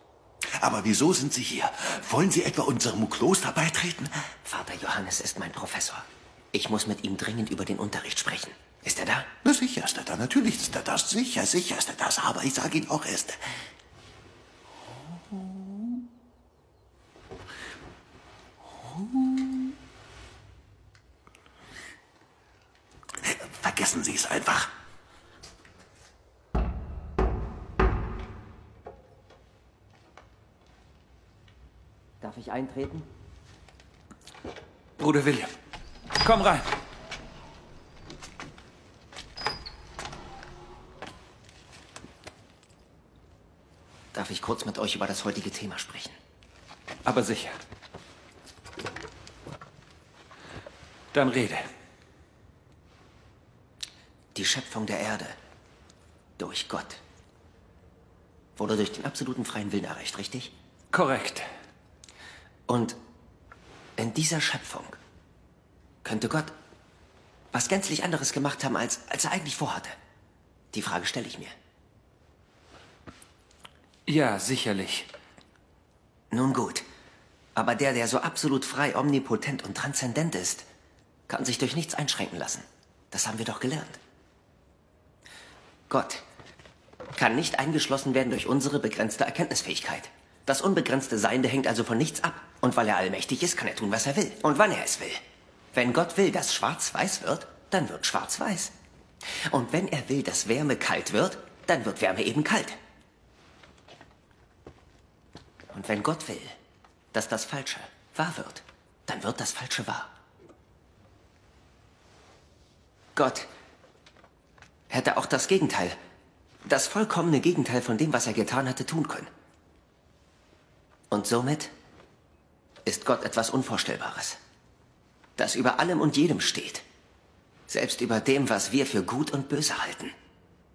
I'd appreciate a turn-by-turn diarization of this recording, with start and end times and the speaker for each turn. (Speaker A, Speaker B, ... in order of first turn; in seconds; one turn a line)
Speaker A: 0.6-4.3
Speaker B: 4.5-9.3
Speaker A: 9.4-13.4
Speaker A: 15.3-15.8
Speaker A: 18.8-19.5
Speaker A: 23.2-24.7
Speaker B: 32.2-33.1
Speaker C: 35.0-35.5
Speaker C: 36.2-36.7
Speaker B: 44.1-46.2
Speaker C: 47.0-47.6
Speaker C: 51.1-51.7
Speaker B: 54.4-55.4
Speaker B: 56.4-57.0
Speaker B: 58.6-60.5
Speaker C: 60.9-61.5
Speaker B: 62.7-63.0
Speaker B: 64.0-65.0
Speaker B: 66.0-66.5
Speaker B: 67.5-70.0
Speaker B: 70.7-71.5
Speaker C: 74.1-75.1
Speaker B: 76.3-76.9
Speaker B: 77.5-80.7
Speaker B: 81.3-84.0
Speaker B: 85.9-86.2
Speaker B: 87.2-95.2
Speaker B: 95.7-98.7
Speaker B: 99.5-102.8
Speaker B: 105.7-106.6
Speaker B: 107.1-110.1
Speaker B: 113.2-113.5
Speaker B: 114.9-116.0
Speaker B: 116.7-119.3
Speaker B: 121.1-121.7
Speaker B: 122.8-124.4
Speaker B: 125.4-126.8
Speaker B: 127.7-130.2